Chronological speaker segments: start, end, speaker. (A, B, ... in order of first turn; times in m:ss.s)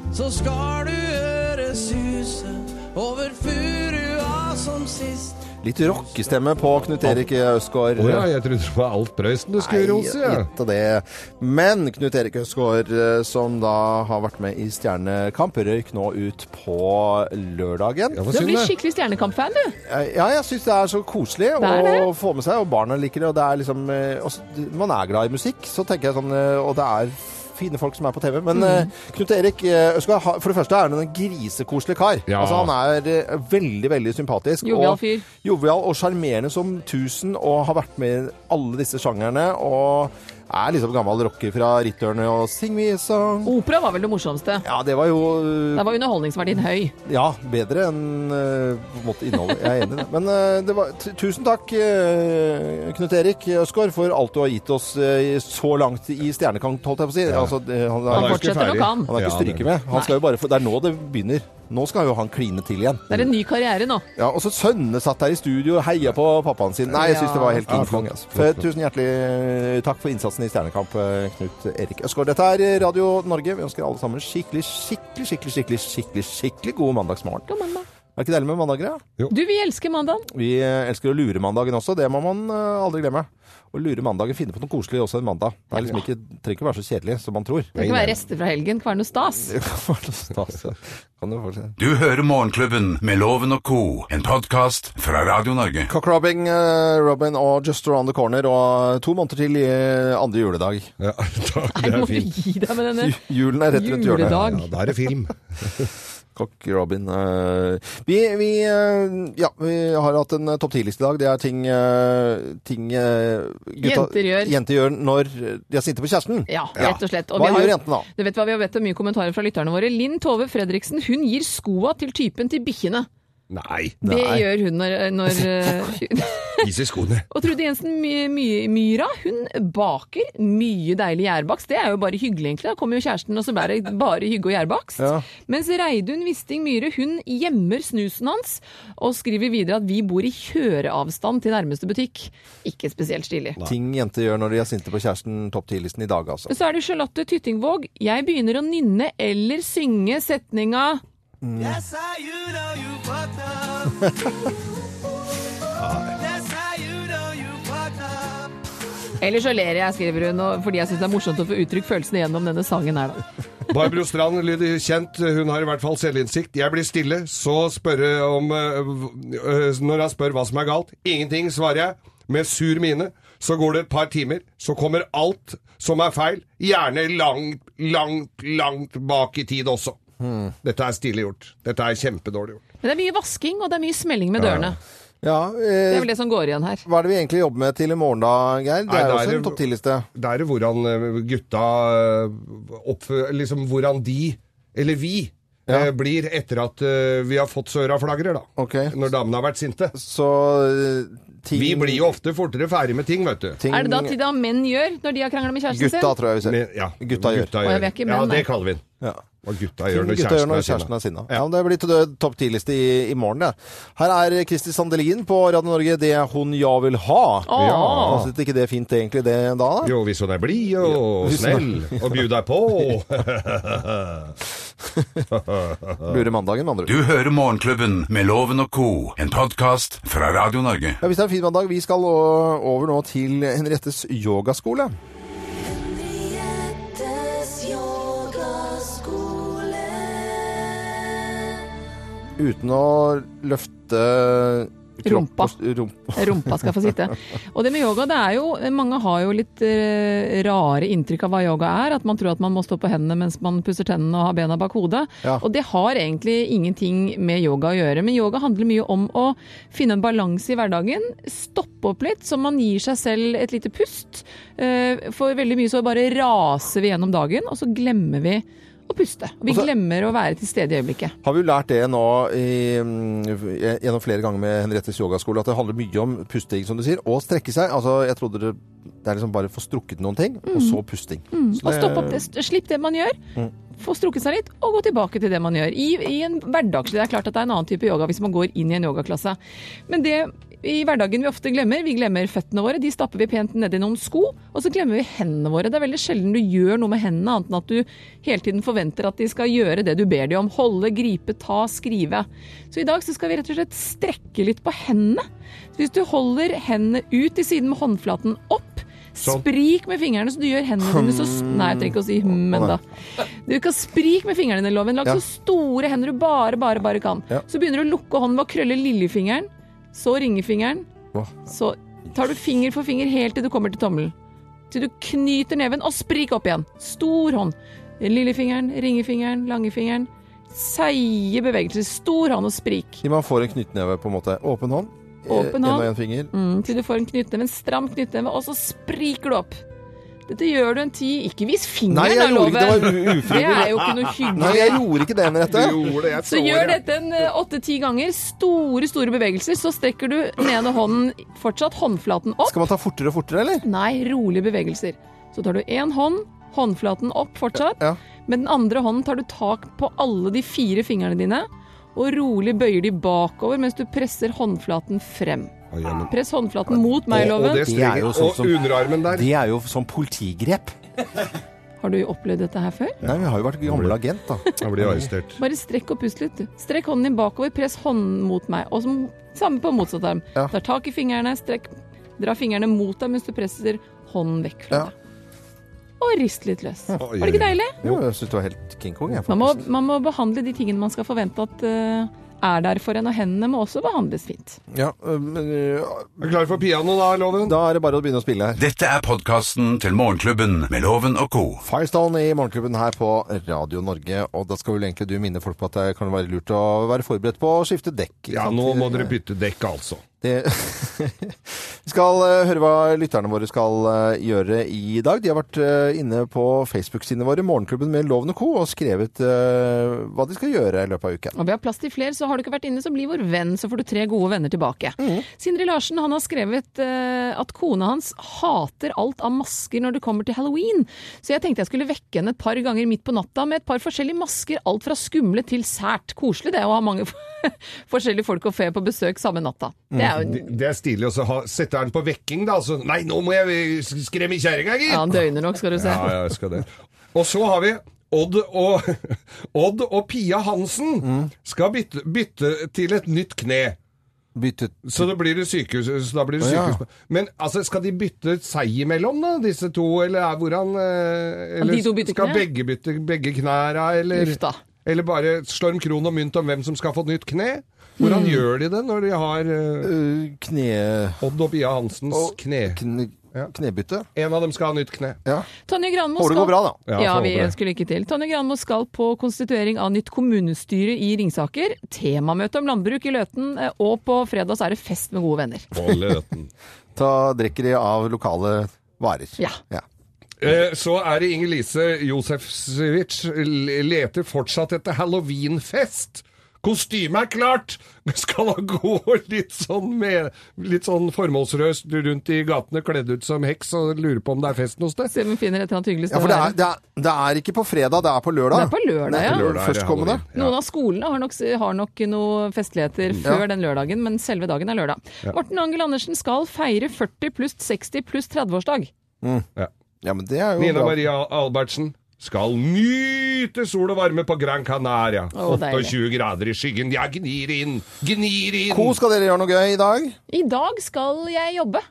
0:00.1-0:06.4 A
0:05.6-0:08.3 B
0:08.0-0:10.5 C
0:09.6-0:18.2 B
0:18.1-0:18.7 C
0:18.3-0:19.8 D
0:19.9-0:43.6 B
0:21.6-0:22.1 D
0:28.5-0:28.9 D
0:32.3-0:32.7 C
0:34.6-0:35.3 D
0:43.4-0:44.6 D
0:44.6-0:45.9 B
0:45.8-0:46.9 D
0:47.0-1:03.3 B
0:58.1-0:59.7 C
0:58.1-0:59.1 D
1:03.1-1:04.0 D
1:04.2-1:17.5 B
1:06.9-1:07.8 D
1:07.7-1:08.6 C
1:17.5-1:17.8 D
1:18.2-1:19.0 B
1:19.3-1:20.3 D
1:20.3-1:27.8 B
1:27.8-1:28.1 C
1:27.8-1:29.6 D
1:29.5-1:31.8 B
1:31.8-1:35.9 E
1:35.9-1:40.9 B
1:41.0-1:42.3 C
1:41.8-1:43.2 D
1:43.0-1:44.6 B
1:43.7-1:44.7 D
1:44.2-1:45.9 C
1:46.4-1:58.1 B
1:53.8-1:54.6 D
1:56.5-2:03.1 D
2:03.5-2:04.0 C
2:04.0-2:04.5 B
2:04.0-2:06.7 D
2:06.6-2:07.3 C
2:07.3-2:23.6 D
2:15.0-2:15.3 B
2:23.6-2:26.5 B
2:26.5-2:31.0 D
2:31.4-2:31.9 B
2:35.8-2:36.2 C
2:39.2-2:43.2 D
2:43.7-3:00.0 C
3:00.2-3:00.5 B
3:00.6-3:02.6 C
3:02.8-3:04.8 D
3:05.2-3:06.1 B
3:05.9-3:06.8 D
3:06.8-3:10.1 B
3:08.9-3:09.6 C
3:10.2-3:20.0 C
3:18.6-3:19.0 B
3:20.0-3:22.2 B
3:21.5-3:23.6 C
3:23.6-3:24.2 B
3:23.7-3:26.2 D
3:25.7-3:27.5 B
3:26.4-3:28.8 C
3:27.6-3:28.5 D
3:29.4-3:31.4 C
3:29.9-3:39.9 B
3:37.5-3:38.3 D
3:37.6-3:38.3 C
3:39.8-3:44.3 C
3:40.8-3:42.2 B
3:44.9-3:45.2 B
3:45.3-3:46.1 C
3:46.0-3:47.0 B
3:46.9-3:51.0 E
3:51.0-3:55.0 B
3:55.7-4:00.3 F
4:02.4-4:06.7 B
4:05.0-4:05.6 D
4:06.2-4:31.2 D
4:31.2-4:42.3 B
4:40.5-4:40.8 D
4:41.3-4:43.2 D
4:43.7-4:49.4 D
4:49.9-5:20.9 D
5:10.8-5:12.8 B
5:21.5-5:24.1 D
5:24.7-5:33.0 D
5:33.0-5:36.3 B
5:35.3-5:39.6 D
5:40.3-5:44.8 D
5:41.9-5:43.7 B
5:43.3-5:44.8 C
5:44.4-5:46.0 B
5:45.4-5:46.8 C
5:46.2-5:52.7 D
5:52.4-5:53.6 B
5:53.6-6:05.5 D
5:57.6-5:58.0 B
6:05.7-6:06.1 C
6:06.1-6:07.7 D
6:06.7-6:10.8 B
6:07.1-6:09.3 C
6:11.8-6:13.0 D
6:13.0-6:14.0 C
6:13.0-6:15.1 B
6:14.6-6:15.4 C
6:15.4-6:24.9 D
6:26.0-6:27.8 D
6:27.0-6:28.0 C
6:27.8-6:29.7 B
6:29.3-6:34.6 D
6:34.7-6:36.2 B
6:36.2-6:37.6 C
6:37.4-6:38.6 B
6:38.6-6:41.6 E
6:41.6-6:49.2 B
6:48.3-6:50.0 C
6:50.2-7:01.4 B
7:01.4-7:20.5 D
7:05.0-7:05.3 B
7:20.1-7:25.2 C
7:24.9-7:26.2 D
7:25.8-7:33.8 C
7:31.0-7:31.3 B
7:34.4-7:35.1 B
7:34.8-7:49.9 C
7:36.4-7:36.8 B
7:41.6-7:42.5 D
7:44.1-7:44.6 D
7:48.0-7:48.4 D
7:49.8-7:51.2 B
7:51.2-7:52.8 C
7:52.1-7:54.1 B
7:54.2-7:55.2 C
7:55.7-8:05.7 D
7:56.2-7:56.8 B
7:56.9-7:57.6 C
8:05.7-8:06.5 C
8:07.0-8:09.8 B
8:10.4-8:25.1 C
8:25.1-8:26.6 D
8:26.1-8:30.2 B
8:28.5-8:29.4 D
8:29.1-8:30.5 C
8:30.3-8:38.9 D
8:39.2-8:39.5 B
8:40.0-8:41.0 B
8:40.6-8:49.0 C
8:45.3-8:46.0 D
8:48.7-8:50.2 B
8:50.3-8:51.8 D